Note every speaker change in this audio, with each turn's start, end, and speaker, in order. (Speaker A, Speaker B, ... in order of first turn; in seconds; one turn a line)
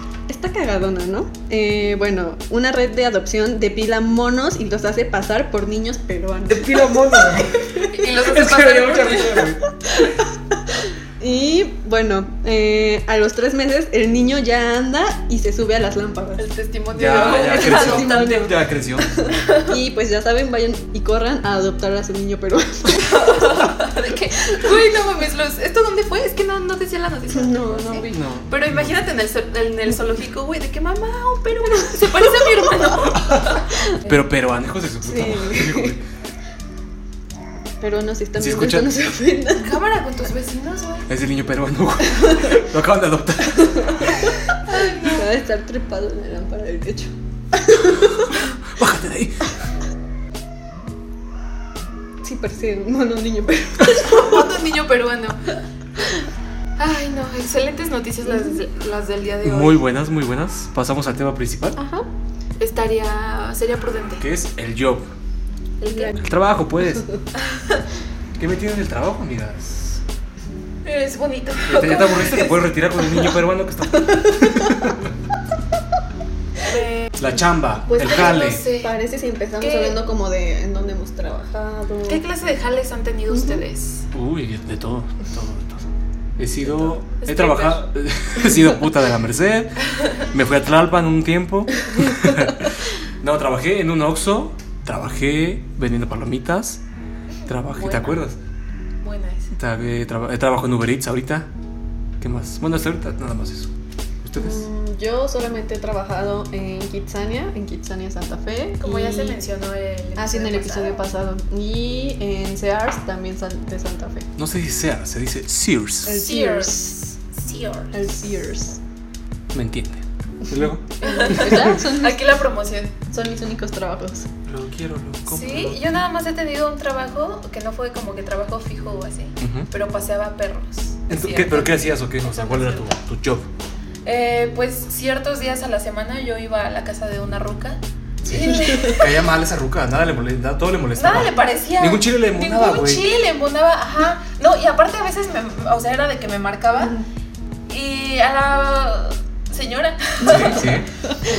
Speaker A: 0.3-7.9
Speaker B: 6.5-9.6
Speaker C: 7.9-9.5
Speaker A: 9.9-10.2
Speaker A: 11.2-16.4
Speaker C: 16.4-18.5
Speaker B: 16.9-19.1
Speaker A: 17.0-18.5
Speaker A: 19.0-23.6
Speaker C: 19.3-19.7
Speaker C: 23.0-34.1
Speaker A: 27.3-28.1
Speaker B: 28.1-28.9
Speaker A: 31.7-33.1
Speaker B: 33.2-36.0
Speaker A: 35.0-36.0
Speaker A: 37.8-39.8
Speaker B: 38.4-38.9
Speaker C: 39.6-41.1
Speaker B: 41.1-44.3
Speaker A: 42.1-42.5
Speaker A: 43.6-44.3
Speaker C: 44.5-45.3
Speaker A: 45.0-48.3
Speaker B: 48.6-49.5
Speaker A: 52.2-54.6
Speaker C: 53.8-55.4
Speaker C: 56.8-59.8
Speaker A: 58.2-58.6
Speaker B: 59.4-61.8
Speaker A: 61.8-62.1
Speaker C: 62.6-64.2
Speaker B: 64.2-65.1
Speaker C: 65.8-66.2
Speaker A: 65.9-66.2
Speaker B: 66.2-67.1
Speaker C: 67.4-67.8
Speaker B: 68.4-70.0
Speaker C: 70.8-72.6
Speaker B: 71.7-75.0
Speaker A: 74.3-74.7
Speaker C: 76.6-77.1
Speaker B: 77.2-78.6
Speaker C: 77.9-79.0
Speaker A: 77.9-82.2
Speaker C: 79.6-80.0
Speaker C: 82.1-84.0
Speaker A: 83.3-83.6
Speaker B: 84.1-96.8
Speaker C: 86.7-87.8
Speaker C: 90.0-90.2
Speaker C: 97.4-98.2
Speaker B: 97.5-98.3
Speaker C: 99.0-99.5
Speaker B: 99.5-101.5
Speaker B: 102.2-103.7
Speaker B: 104.2-104.7
Speaker A: 104.3-109.4
Speaker C: 108.8-111.0
Speaker A: 110.2-114.3
Speaker B: 114.4-116.1
Speaker A: 116.0-117.1
Speaker C: 116.1-118.0
Speaker A: 117.9-118.8
Speaker B: 119.5-121.8
Speaker A: 121.0-122.2
Speaker C: 121.0-122.9
Speaker A: 123.1-124.3
Speaker B: 124.5-125.8
Speaker C: 125.3-132.9
Speaker B: 129.4-129.7
Speaker B: 131.1-133.5
Speaker C: 134.0-139.2
Speaker B: 138.2-143.0
Speaker A: 138.4-139.0
Speaker C: 140.9-146.9
Speaker C: 147.7-150.8
Speaker B: 150.2-150.9
Speaker A: 150.2-150.7